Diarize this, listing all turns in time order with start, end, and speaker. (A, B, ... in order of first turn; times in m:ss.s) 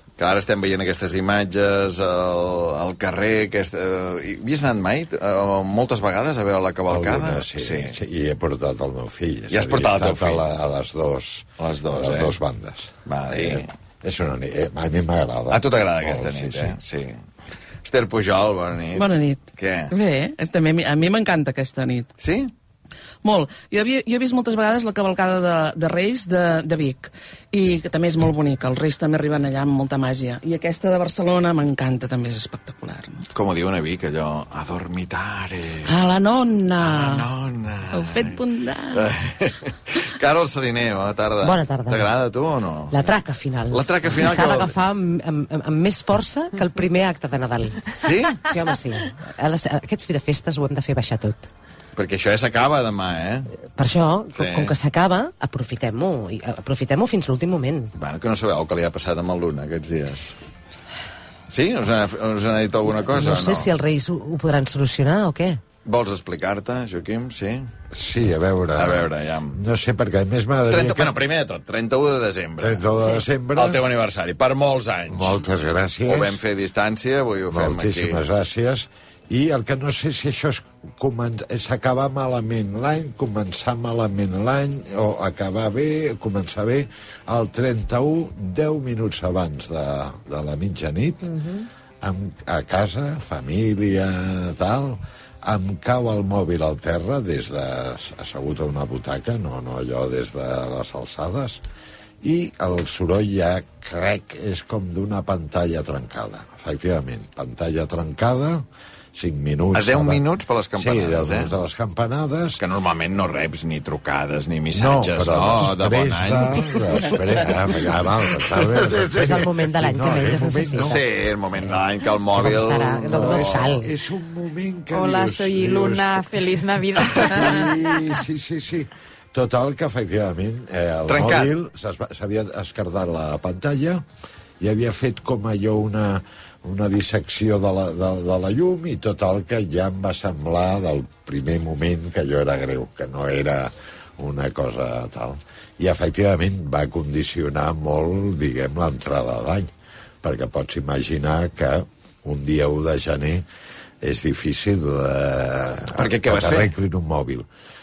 0:00.2-0:08.0 A
0:06.9-0:16.8 B
0:09.5-0:10.5 A
0:11.6-0:12.4 A
0:13.0-0:13.7 A
0:15.5-0:17.2 A
0:17.8-0:19.9 A
0:18.9-0:22.1 C
0:22.2-0:22.5 A
0:23.2-0:33.2 C
0:33.3-0:35.9 A
0:35.8-0:37.3 C
0:36.8-0:43.1 A
0:37.9-0:39.1 C
0:41.4-0:42.1 D
0:42.9-0:47.9 D
0:43.7-0:44.8 A
0:48.0-0:48.5 A
0:48.4-0:51.5 D
0:52.0-0:53.5 A
0:53.8-0:57.9 D
0:54.4-0:54.8 A
0:58.0-1:00.4 A
1:01.5-1:03.7 A
1:03.0-1:05.6 D
1:05.8-1:07.7 A
1:07.9-1:11.2 B
1:08.8-1:09.6 A
1:10.7-1:12.9 A
1:12.6-1:13.8 B
1:13.6-1:15.4 A
1:15.1-1:16.4 B
1:16.1-1:18.2 A
1:17.5-1:31.3 B
1:31.2-1:31.7 E
1:32.0-1:41.6 B
1:42.2-1:50.2 B
1:49.7-1:51.5 A
1:50.8-1:52.6 B
1:52.6-1:57.2 A
1:54.7-2:01.0 B
1:58.5-1:59.6 A
1:59.1-2:01.0 D
2:00.8-2:03.8 A
2:02.3-2:03.9 D
2:03.1-2:06.6 B
2:04.9-2:08.2 E
2:07.2-2:14.0 B
2:11.1-2:11.5 A
2:14.6-2:29.7 B
2:30.2-2:33.4 B
2:34.0-2:37.5 B
2:35.9-2:36.7 A